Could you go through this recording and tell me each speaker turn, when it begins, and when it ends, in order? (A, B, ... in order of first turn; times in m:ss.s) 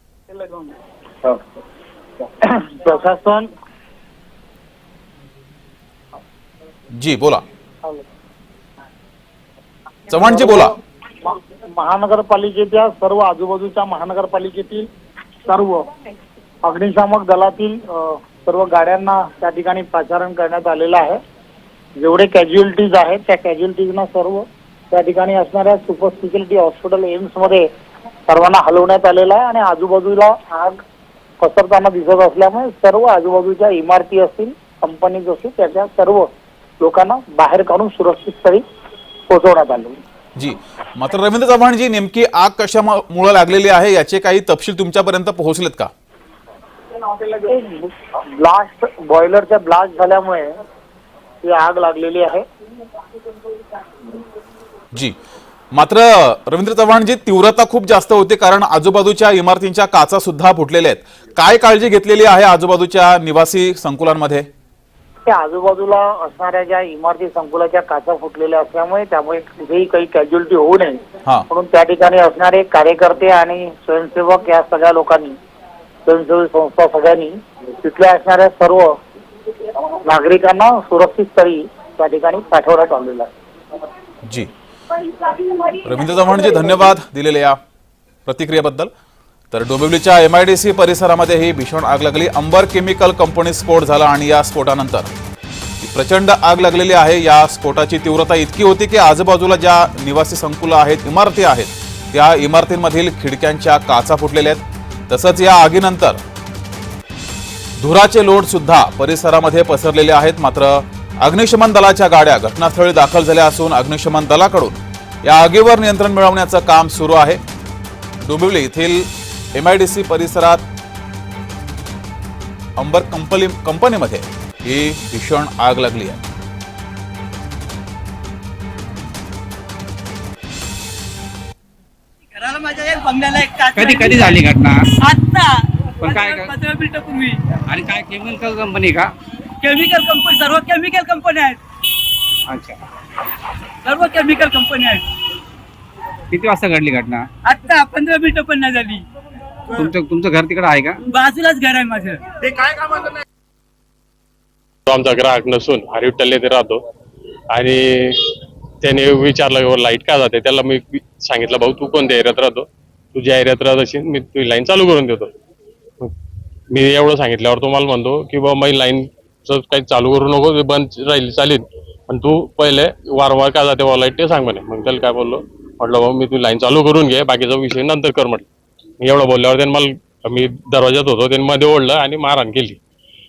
0:00.3-0:00.7 A
0:02.4-0:03.5 A
0:07.0-0:07.4 B
0:10.1-0:10.7 B
0:10.2-0:10.7 A
0:11.2-0:14.9 A
0:15.4-0:15.9 A
0:16.6-0:21.2 A
0:22.0-0:27.7 A
0:28.3-0:30.8 A
0:31.4-0:36.3 A
0:36.8-0:38.6 A
0:39.3-0:40.0 A
0:40.4-0:45.9 B
0:47.2-0:50.5 A
0:51.4-0:52.4 A
0:55.7-1:04.5 B
1:05.3-1:15.4 A
1:16.1-1:19.0 A
1:20.0-1:23.3 A
1:25.8-1:27.6 B
1:28.2-1:28.9 B
1:29.5-1:35.1 B
1:35.8-1:46.2 B
1:47.8-1:57.4 B
1:58.2-2:00.6 B
2:02.8-2:06.2 B
2:12.3-2:14.4 C
2:13.7-2:14.9 D
2:14.9-2:17.6 C
2:16.0-2:16.5 D
2:17.6-2:19.1 D
2:19.6-2:21.6 C
2:22.5-2:22.8 D
2:23.8-2:25.0 C
2:26.3-2:27.2 D
2:27.4-2:29.0 C
2:29.7-2:31.0 D
2:31.0-2:32.6 C
2:34.8-2:36.8 E
2:37.5-2:45.3 E
2:46.7-2:58.5 E
2:59.0-3:02.8 E